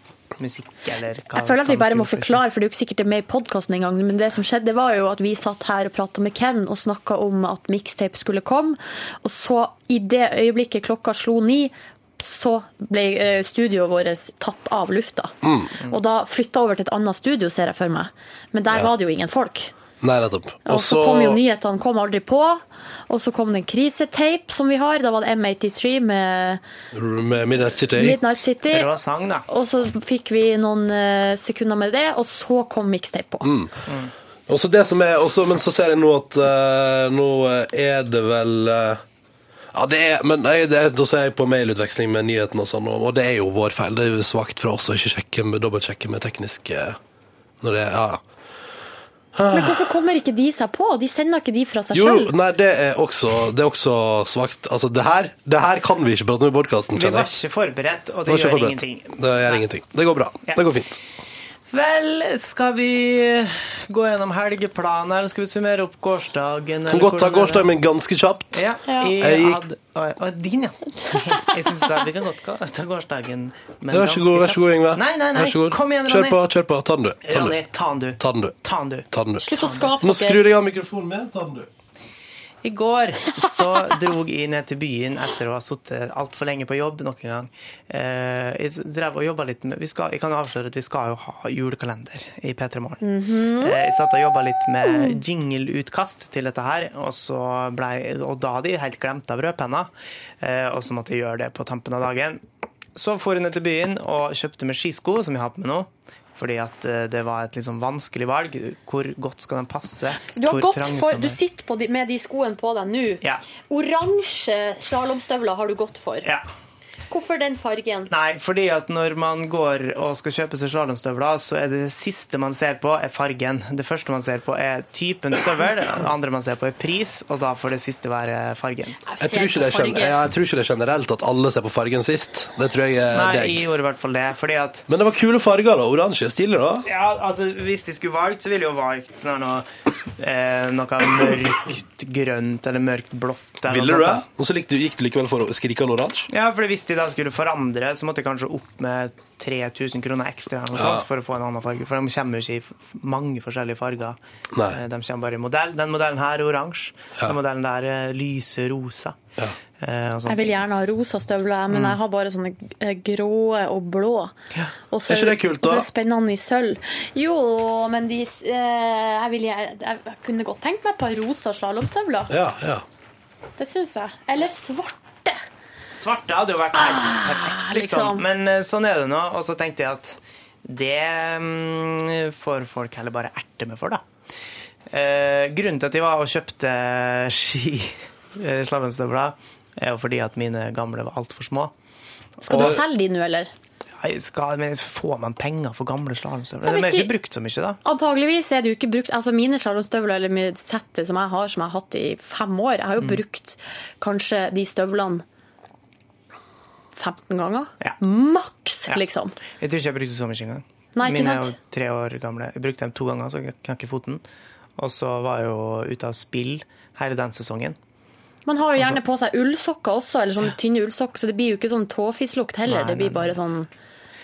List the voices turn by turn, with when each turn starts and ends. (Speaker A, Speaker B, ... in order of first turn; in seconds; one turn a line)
Speaker A: 0.4-2.4
Speaker B: 1.4-19.7
Speaker C: 15.4-15.7
Speaker C: 20.0-21.4
Speaker B: 20.6-26.6
Speaker C: 26.9-28.2
Speaker B: 28.0-28.9
Speaker A: 28.7-29.4
Speaker B: 29.5-33.5
Speaker C: 33.4-33.8
Speaker A: 33.9-34.1
Speaker C: 34.5-39.0
Speaker C: 39.7-47.0
Speaker C: 47.6-48.2
Speaker C: 49.3-49.9
Speaker B: 49.5-52.3
Speaker C: 51.9-57.3
Speaker A: 56.9-59.6
Speaker C: 58.3-61.0
Speaker A: 61.7-67.7
Speaker C: 66.9-68.7
Speaker A: 68.5-76.4
Speaker C: 69.2-69.6
Speaker B: 71.1-71.5
Speaker C: 73.9-77.6
Speaker A: 77.2-79.9
Speaker C: 78.2-78.5
Speaker C: 79.1-79.4
Speaker B: 79.4-80.4
Speaker C: 80.0-81.7
Speaker A: 82.6-93.0
Speaker B: 93.0-93.8
Speaker A: 93.6-99.9
Speaker B: 94.9-95.2
Speaker A: 100.4-102.4
Speaker A: 103.0-111.4
Speaker B: 110.3-116.3
Speaker B: 117.1-118.1
Speaker A: 118.1-129.0
Speaker B: 129.0-130.2
Speaker C: 129.2-133.6
Speaker A: 133.1-134.8
Speaker C: 134.9-136.8
Speaker A: 136.8-144.2
Speaker C: 143.7-146.3
Speaker A: 146.3-159.2
Speaker C: 150.7-151.0
Speaker C: 154.5-154.8
Speaker A: 159.8-160.5
Speaker B: 160.3-164.3
Speaker A: 161.7-162.0
Speaker B: 164.9-172.3
Speaker C: 165.1-165.9
Speaker C: 172.3-172.8
Speaker B: 173.6-175.4
Speaker A: 175.9-184.0
Speaker B: 176.7-178.2
Speaker A: 184.9-191.7
Speaker A: 192.4-192.8
Speaker B: 192.4-193.5
Speaker C: 192.5-192.8
Speaker A: 194.0-197.8
Speaker B: 196.6-197.1
Speaker B: 197.8-205.2
Speaker B: 206.9-209.3
Speaker A: 209.5-214.2
Speaker B: 210.9-211.5
Speaker A: 214.8-217.8
Speaker B: 218.4-223.7
Speaker A: 222.7-223.4